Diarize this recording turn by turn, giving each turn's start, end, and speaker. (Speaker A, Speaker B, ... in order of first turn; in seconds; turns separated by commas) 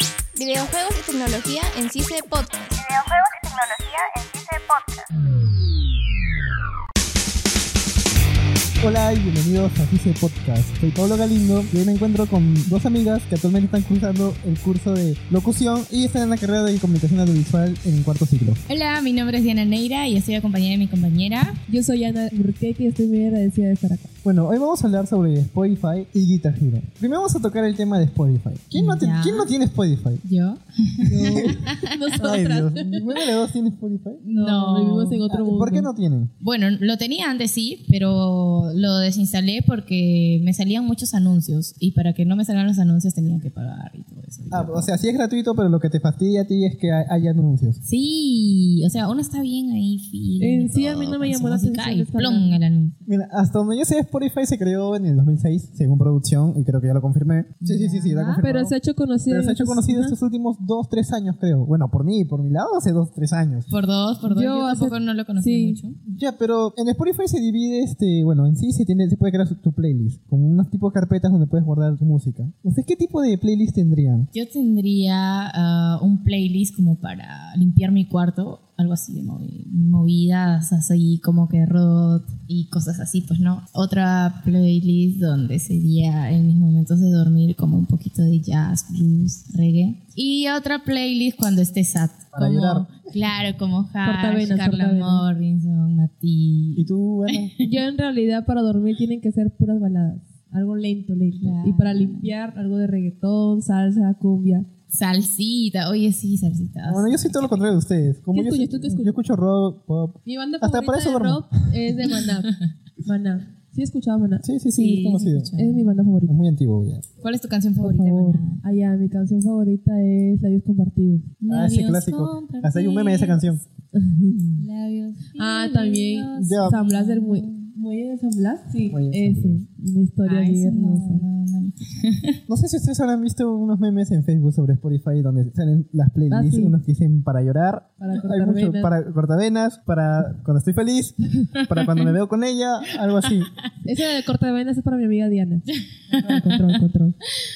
Speaker A: 0.3-2.8, Speaker B: 2.8-5.0, Speaker C: 8.8-18.6, Speaker D: 18.7-21.6, Speaker E: 21.7-24.1, Speaker C: 24.2-30.2, Speaker D: 28.7-29.5, Speaker D: 30.2-31.8, Speaker E: 31.1-33.3, Speaker C: 31.2-31.6, Speaker C: 32.1-34.2, Speaker D: 34.2-35.2, Speaker E: 34.4-35.9, Speaker C: 35.3-36.3, Speaker D: 36.4-44.9, Speaker C: 44.5-47.8, Speaker D: 47.8-53.0, Speaker E: 50.4-52.6, Speaker C: 53.0-58.7, Speaker D: 57.6-58.4, Speaker E: 58.4-60.1, Speaker C: 59.3-63.7, Speaker D: 63.7-66.0, Speaker E: 64.2-65.8, Speaker C: 66.1-74.3, Speaker D: 74.3-97.7, Speaker C: 92.3-92.9, Speaker E: 94.0-95.2, Speaker C: 96.8-97.5, Speaker E: 97.6-104.7, Speaker D: 101.4-102.3, Speaker D: 104.9-107.6, Speaker C: 106.9-111.5, Speaker E: 108.3-109.1, Speaker E: 110.2-114.5, Speaker C: 114.4-115.5, Speaker D: 114.8-115.9, Speaker E: 115.6-116.3, Speaker C: 116.2-117.0, Speaker D: 117.2-118.6, Speaker E: 117.8-121.3, Speaker D: 121.4-123.6, Speaker C: 121.5-123.6, Speaker E: 123.9-124.7, Speaker D: 124.6-127.7, Speaker E: 125.4-131.2, Speaker C: 126.4-126.8, Speaker C: 128.9-129.7, Speaker D: 130.2-132.4, Speaker C: 132.5-143.5, Speaker E: 136.3-136.7, Speaker E: 138.0-138.9, Speaker D: 141.7-142.0, Speaker E: 143.8-147.2, Speaker D: 146.1-146.8